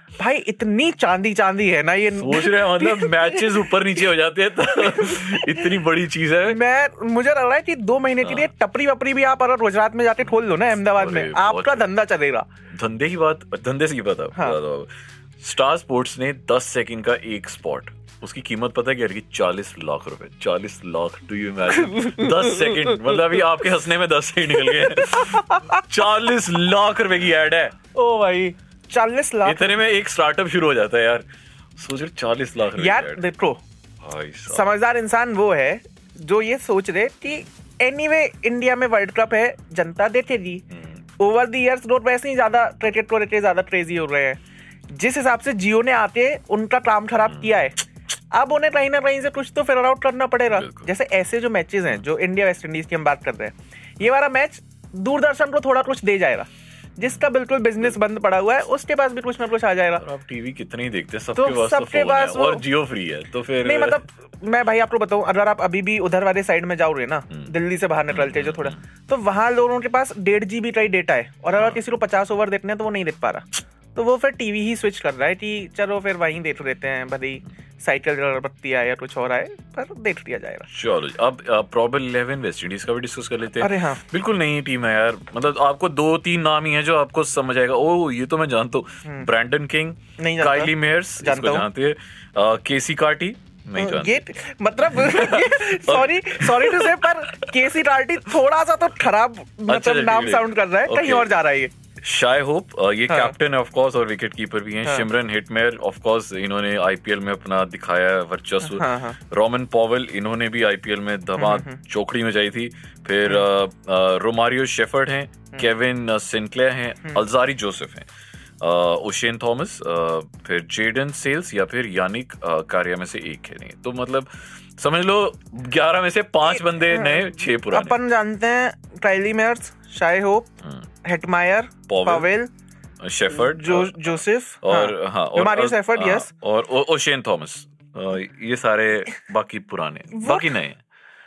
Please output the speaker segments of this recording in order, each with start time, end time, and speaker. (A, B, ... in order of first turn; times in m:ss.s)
0:00.2-0:03.8 A
0:02.1-0:06.6 B
0:04.7-0:05.8 A
0:06.5-0:12.5 A
0:08.2-0:08.5 B
0:10.8-0:11.9 B
0:12.7-0:27.7 B
0:21.8-0:23.4 A
0:24.6-0:25.8 A
0:27.9-0:29.8 A
0:29.4-0:31.2 B
0:31.8-0:33.2 B
0:32.7-0:33.6 A
0:34.0-0:34.7 B
0:34.5-0:40.6 A
0:40.7-0:41.0 B
0:41.2-0:44.4 A
0:44.9-1:00.0 A
0:50.5-0:50.9 B
1:00.0-1:04.0 B
1:01.3-1:02.6 A
1:03.6-1:20.7 A
1:08.1-1:08.8 B
1:11.6-1:11.8 B
1:20.7-1:34.2 B
1:23.6-1:24.0 A
1:30.2-1:31.6 A
1:33.8-1:41.7 A
1:34.8-1:37.5 B
1:39.7-1:41.3 B
1:42.0-1:58.1 B
1:43.1-1:43.4 A
1:48.6-1:49.2 A
1:51.4-1:51.8 A
1:58.6-2:08.0 B
2:06.6-2:10.5 A
2:11.0-2:12.5 A
2:11.9-2:12.3 B
2:13.0-2:20.8 B
2:13.3-2:16.3 A
2:20.1-2:20.5 A